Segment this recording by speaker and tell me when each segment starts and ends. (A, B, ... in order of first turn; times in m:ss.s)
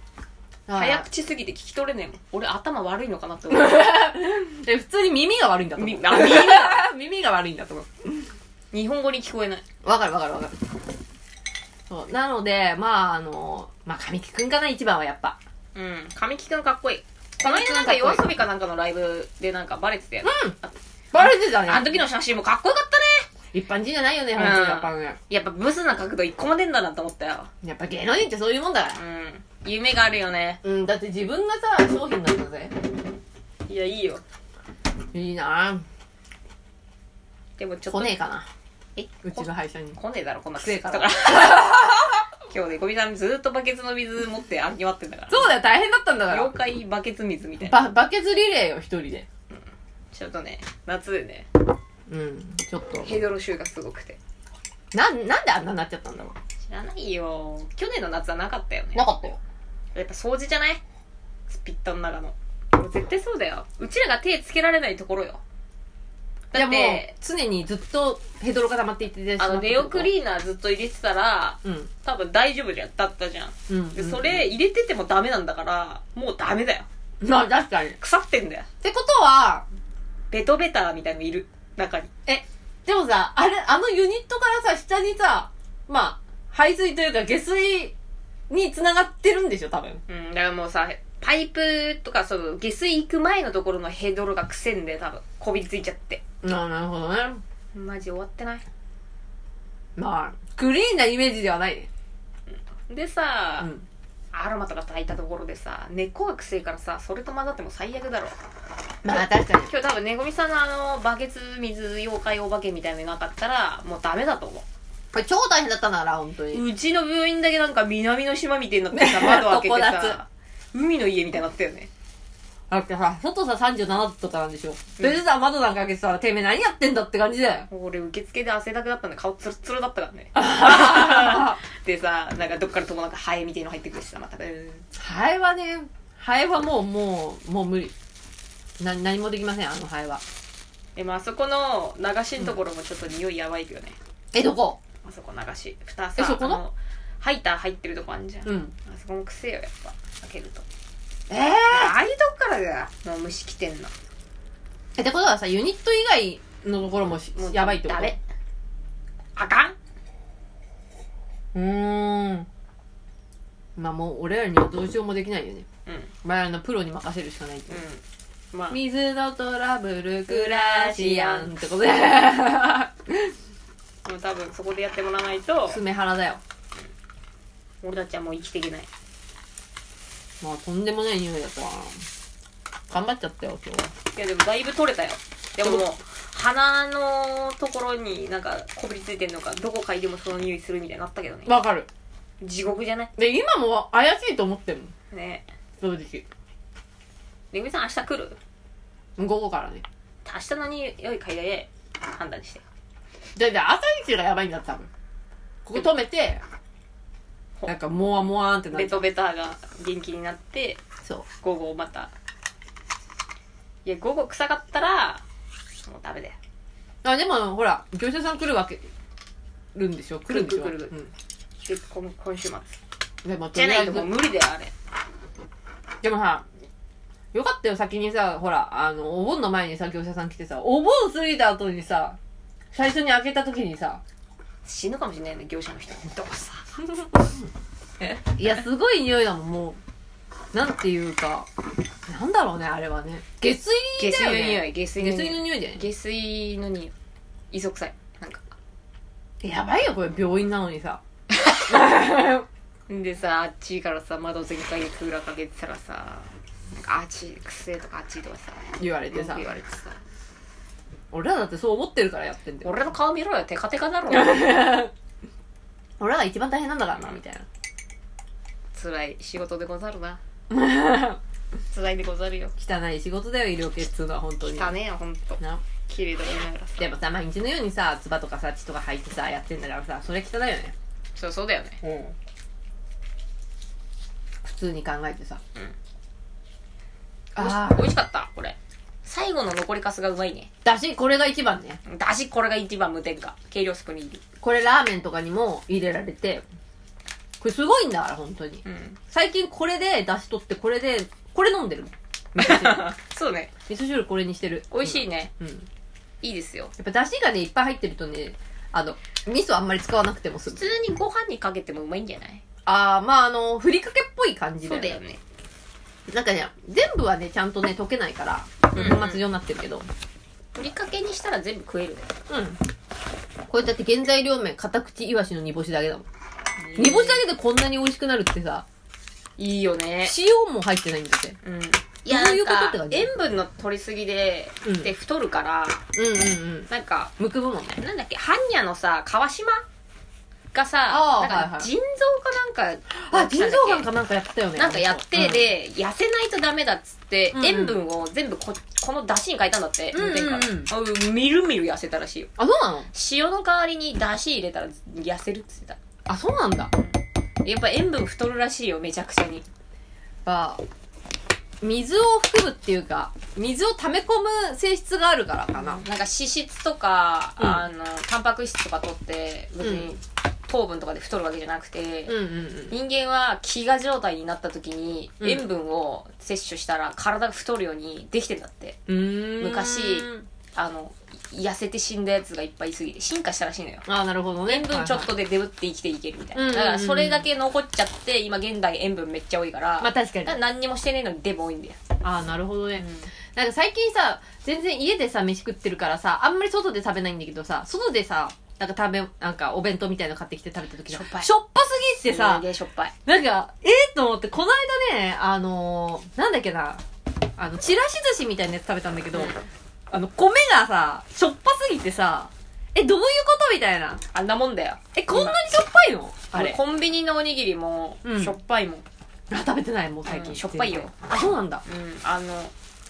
0:00.7-0:01.1 A
0:00.7-0:04.0 B
0:03.5-0:08.3 A
0:05.8-0:06.8 B
0:08.7-0:09.6 B
0:09.8-0:10.6 A
0:11.9-0:15.4 A
0:15.8-0:23.3 B
0:17.4-0:18.3 A
0:20.2-0:20.6 A
0:21.1-0:21.9 A
0:23.5-0:25.2 A
0:24.4-0:27.5 B
0:27.6-0:29.0 A
0:29.0-0:30.6 B
0:30.6-0:32.8 A
0:33.7-0:34.2 B
0:35.1-0:35.8 A
0:37.6-0:38.2 B
0:37.9-0:38.5 A
0:39.0-0:41.8 B
0:39.2-0:40.0 A
0:40.6-0:42.2 A
0:42.5-0:45.6 B
0:45.3-0:46.5 A
0:46.3-0:47.9 B
0:47.6-0:49.3 A
0:49.5-0:51.5 B
0:52.1-0:53.1 A
0:53.0-0:54.2 B
0:54.9-0:56.4 A
0:56.6-0:59.1 B
0:58.9-0:59.4 A
1:00.0-1:00.8 B
1:01.5-1:05.4 B
1:06.5-1:07.1 B
1:06.5-1:10.1 A
1:09.4-1:16.9 B
1:11.6-1:11.9 A
1:13.7-1:14.5 A
1:17.2-1:18.0 A
1:18.0-1:18.7 B
1:18.8-1:19.7 A
1:20.3-1:22.1 B
1:22.3-1:27.9 A
1:28.5-1:30.0 A
1:30.1-1:36.2 B
1:36.4-1:37.4 A
1:37.7-1:38.6 B
1:40.0-1:41.9 A
1:42.5-1:43.7 B
1:44.3-1:48.4 B
1:49.0-1:49.7 A
1:49.1-1:54.6 B
1:55.1-1:56.6 A
1:56.5-2:01.9 B
1:58.9-2:00.2 A
2:02.7-2:07.7 A
2:07.7-2:14.9 B
2:10.4-2:11.6 A
2:15.0-2:17.9 A
2:18.8-2:20.2 A
2:21.0-2:24.0 B
2:24.3-2:24.8 A
2:25.0-2:30.6 B
2:26.2-2:26.6 A
2:28.5-2:28.7 A
2:31.3-2:32.0 A
2:31.7-2:33.9 B
2:35.0-2:38.2 A
2:37.4-2:38.2 B
2:39.4-2:39.8 B
2:41.5-2:42.5 A
2:43.8-2:45.7 A
2:45.9-2:46.1 B
2:46.2-2:47.8 A
2:47.7-2:48.8 B
2:48.7-2:53.4 A
2:50.3-2:51.5 B
2:54.0-2:55.8 B
2:55.7-2:56.4 A
2:57.8-2:58.9 B
3:00.4-3:02.0 A
3:02.9-3:03.9 A
3:04.1-3:11.6 B
3:05.6-3:05.9 A
3:11.5-3:11.9 A
3:12.4-3:13.1 B
3:13.2-3:14.9 A
3:15.1-3:15.5 B
3:15.8-3:16.2 A
3:17.5-3:18.4 B
3:19.2-3:19.8 A
3:20.2-3:22.6 B
3:23.4-3:24.9 A
3:25.6-3:26.4 A
3:27.7-3:29.0 A
3:28.7-3:30.8 B
3:31.4-3:32.1 B
3:33.8-3:35.2 B
3:35.8-3:36.4 B
3:37.0-3:38.8 A
3:39.8-3:41.1 A
3:40.3-3:40.9 B
3:41.6-3:42.8 B
3:43.2-3:44.1 A
3:43.5-3:44.7 B
3:46.0-3:46.4 A
3:47.3-3:52.2 A
3:52.7-3:54.0 A
3:54.6-3:56.8 B
3:58.2-3:59.8 A
4:00.5-4:01.5 A
4:02.1-4:05.8 A
4:04.0-4:06.9 B
4:07.5-4:08.4 B
4:09.4-4:11.0 A
4:11.6-4:12.5 A
4:12.9-4:20.0 B
4:18.8-4:19.5 A
4:21.1-4:22.7 A
4:22.6-4:24.8 B
4:24.1-4:24.9 A
4:26.0-4:27.5 A
4:28.7-4:30.2 B
4:30.5-4:31.2 A
4:31.7-4:32.5 B
4:32.6-4:34.7 A
4:34.5-4:37.0 B
4:36.8-4:40.7 A
4:41.2-4:41.8 B
4:41.8-4:42.1 A
4:44.4-4:45.4 A
4:47.4-4:47.9 A
4:47.4-4:50.5 B
4:50.6-4:51.8 A
4:51.8-4:54.2 B
4:54.4-4:56.4 A
4:57.4-5:02.9 A
4:58.6-4:59.0 B
5:02.4-5:03.5 B
5:03.7-5:05.7 A
5:04.7-5:05.3 B
5:06.2-5:06.7 B
5:06.8-5:10.7 A
5:10.5-5:12.4 B
5:12.7-5:15.0 A
5:14.6-5:15.2 B
5:16.1-5:19.9 A
5:18.7-5:19.2 B
5:20.6-5:22.1 B
5:22.3-5:22.6 A
5:23.5-5:26.1 A
5:26.6-5:27.2 B
5:26.8-5:28.7 A
5:29.4-5:30.2 B
5:30.0-5:31.4 A
5:31.4-5:35.8 B
5:32.1-5:33.1 A
5:34.6-5:34.9 A
5:35.9-5:37.8 A
5:36.7-5:37.1 B
5:37.8-5:39.6 B
5:40.5-5:43.9 B
5:40.9-5:41.7 A
5:43.1-5:45.5 A
5:44.6-5:52.3 B
5:47.3-5:47.8 A
5:49.9-5:50.7 A
5:52.4-5:52.9 A
5:52.9-5:55.8 B
5:56.1-5:56.7 A
5:56.8-5:59.4 B
6:00.2-6:00.6 A
6:01.6-6:05.8 A
6:05.5-6:18.8 B
6:07.4-6:07.7 A
6:09.6-6:09.9 A
6:12.1-6:12.8 A
6:15.2-6:15.4 A
6:18.9-6:20.3 A
6:19.4-6:23.9 B
6:23.9-6:25.1 A
6:24.5-6:31.8 B
6:26.4-6:27.3 A
6:29.8-6:30.4 A
6:32.0-6:42.5 A
6:32.8-6:33.1 B
6:40.9-6:41.3 B
6:42.0-6:43.0 B
6:43.1-6:46.8 A
6:47.4-6:49.4 A
6:49.1-6:49.5 B
6:49.9-6:54.0 A
6:54.1-6:55.4 B
6:55.0-6:56.6 A
6:56.3-6:58.8 B
6:58.0-6:58.4 A
6:59.3-7:01.6 A
7:00.1-7:01.0 B
7:01.6-7:02.5 B